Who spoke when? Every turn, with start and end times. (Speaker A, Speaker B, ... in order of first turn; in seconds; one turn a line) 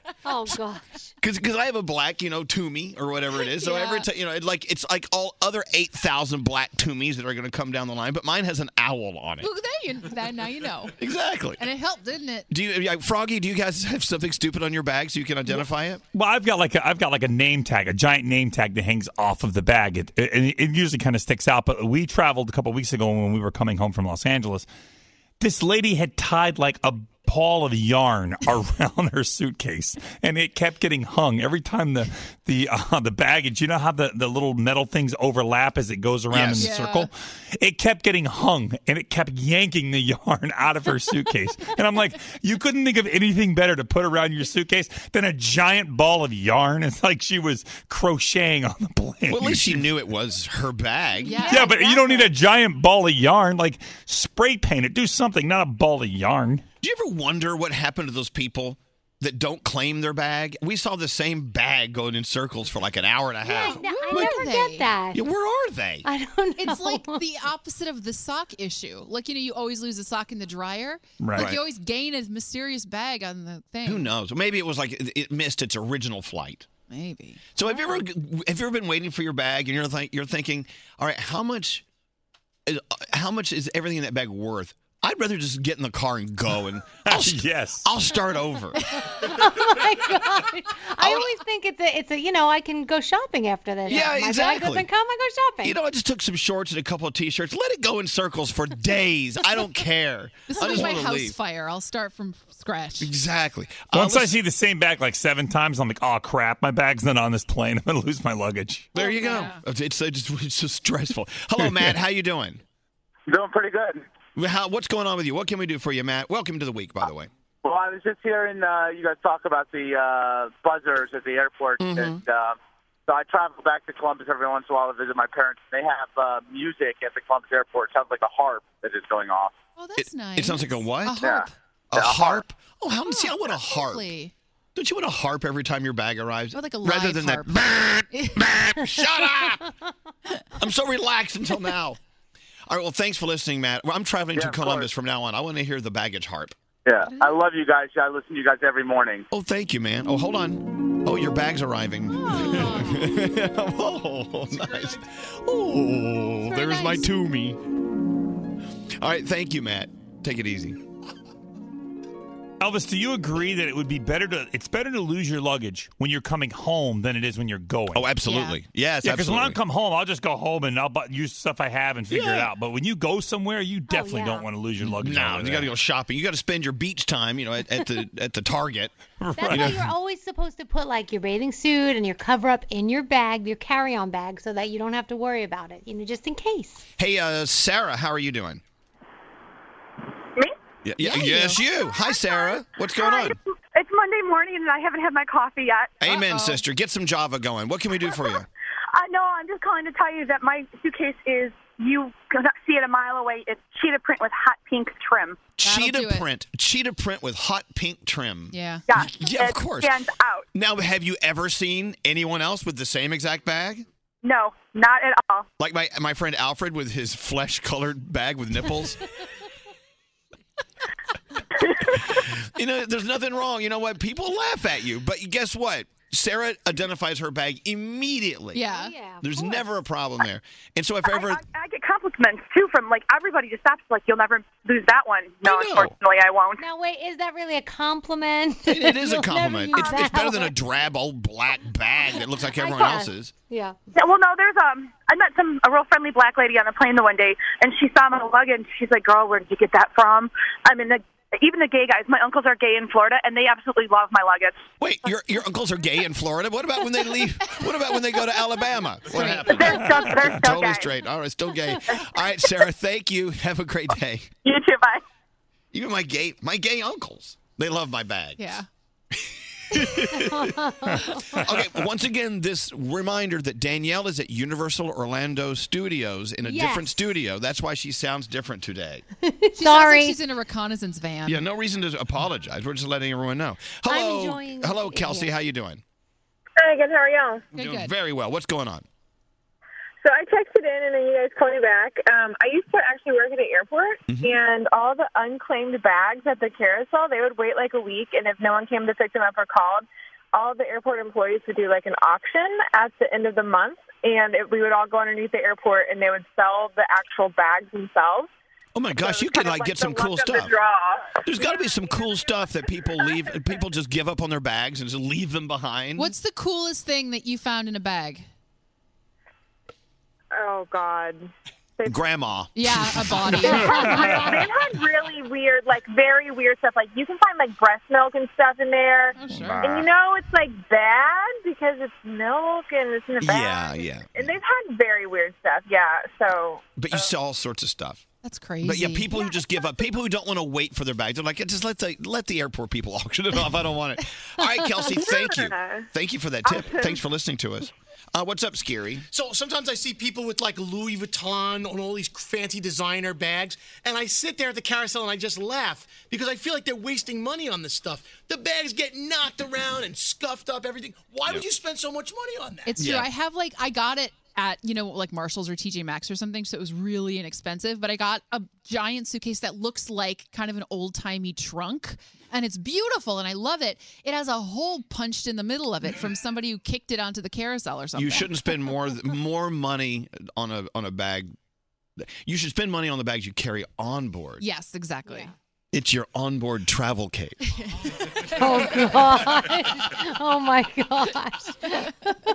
Speaker A: 0.2-1.1
Speaker B: 1.2-9.5
Speaker C: 3.4-4.1
Speaker C: 9.4-10.9
Speaker B: 11.0-11.6
Speaker C: 11.6-12.5
Speaker B: 12.5-16.0
Speaker D: 16.1-24.7
Speaker D: 25.4-49.8
Speaker B: 36.3-36.8
Speaker C: 36.6-37.1
Speaker B: 49.3-51.6
Speaker C: 51.2-52.2
Speaker A: 51.2-52.2
Speaker D: 51.5-56.6
Speaker B: 56.8-64.3
Speaker A: 63.4-65.2
Speaker C: 63.6-64.9
Speaker B: 65.1-66.0
Speaker A: 66.0-67.2
Speaker C: 66.6-74.1
Speaker D: 71.2-71.6
Speaker B: 73.8-76.7
Speaker C: 76.9-78.0
Speaker B: 77.5-81.8
Speaker B: 82.7-88.8
Speaker D: 87.0-87.9
Speaker A: 89.0-95.8
Speaker B: 91.0-91.3
Speaker B: 93.9-94.9
Speaker B: 95.6-101.4
Speaker C: 100.5-103.1
Speaker B: 103.0-104.4
Speaker D: 103.9-108.9
Speaker B: 108.9-112.6
Speaker A: 109.0-109.5
Speaker C: 109.2-109.6
Speaker E: 113.3-114.0
Speaker B: 114.4-117.3
Speaker E: 117.6-129.6
Speaker B: 121.8-122.2
Speaker C: 129.8-131.5
Speaker B: 130.0-131.2
Speaker E: 131.2-132.4
Speaker B: 131.9-134.1
Speaker C: 133.1-134.3
Speaker B: 134.7-139.6
Speaker C: 136.5-138.5
Speaker B: 140.6-142.0
Speaker B: 142.7-146.6
Speaker E: 144.3-144.9
Speaker E: 146.9-149.3
Speaker C: 147.1-147.4
Speaker B: 149.3-157.6
Speaker C: 152.2-153.2
Speaker C: 156.4-157.1
Speaker B: 159.0-160.8
Speaker D: 162.6-168.2
Speaker B: 167.9-169.6
Speaker C: 168.2-168.6
Speaker D: 169.0-175.7
Speaker A: 173.9-174.5
Speaker B: 174.9-179.9
Speaker A: 179.4-186.9
Speaker B: 187.0-188.6
Speaker B: 190.9-193.4
Speaker C: 191.1-191.6
Speaker F: 192.9-196.0
Speaker B: 196.0-198.5
Speaker C: 196.1-196.6
Speaker F: 198.9-205.5
Speaker B: 205.6-210.0
Speaker C: 205.6-206.3
Speaker C: 208.5-208.9
Speaker F: 208.9-210.4
Speaker B: 210.5-213.9
Speaker F: 214.2-215.5
Speaker B: 215.6-219.0
Speaker B: 221.7-228.7
Speaker C: 228.5-228.9
Speaker A: 228.6-229.6
Speaker B: 229.2-231.4
Speaker F: 231.1-236.6
Speaker B: 235.4-235.9
Speaker A: 236.6-240.6
Speaker B: 238.7-243.3
Speaker A: 242.5-243.8
Speaker F: 243.9-254.6
Speaker B: 254.8-264.3
Speaker C: 259.1-259.7
Speaker F: 259.5-260.9
Speaker F: 264.4-265.0
Speaker B: 265.7-268.6
Speaker C: 268.4-268.7
Speaker B: 269.7-270.5
Speaker A: 270.1-271.4
Speaker B: 271.3-279.0
Speaker A: 276.4-277.0
Speaker A: 279.2-280.2
Speaker C: 279.6-281.4
Speaker B: 281.2-285.8
Speaker A: 283.9-285.3
Speaker G: 286.6-287.4
Speaker B: 287.5-288.8
Speaker C: 287.6-287.9
Speaker G: 290.0-308.3
Speaker B: 294.1-294.4
Speaker B: 308.7-310.5
Speaker G: 308.9-312.3
Speaker B: 311.2-316.1
Speaker C: 315.9-318.3
Speaker G: 320.3-322.0
Speaker B: 321.9-323.5
Speaker C: 322.6-324.1
Speaker G: 323.8-337.1
Speaker C: 329.1-329.7
Speaker B: 333.2-334.3
Speaker B: 336.8-338.1
Speaker C: 338.2-339.1
Speaker B: 338.6-349.1
Speaker G: 344.9-345.9
Speaker G: 346.4-347.0
Speaker H: 349.1-362.8
Speaker C: 362.7-378.3
Speaker B: 362.8-363.1
Speaker B: 377.9-381.3
Speaker B: 382.0-384.4
Speaker C: 384.4-385.3
Speaker B: 385.7-387.4
Speaker C: 387.5-388.7
Speaker A: 388.3-391.9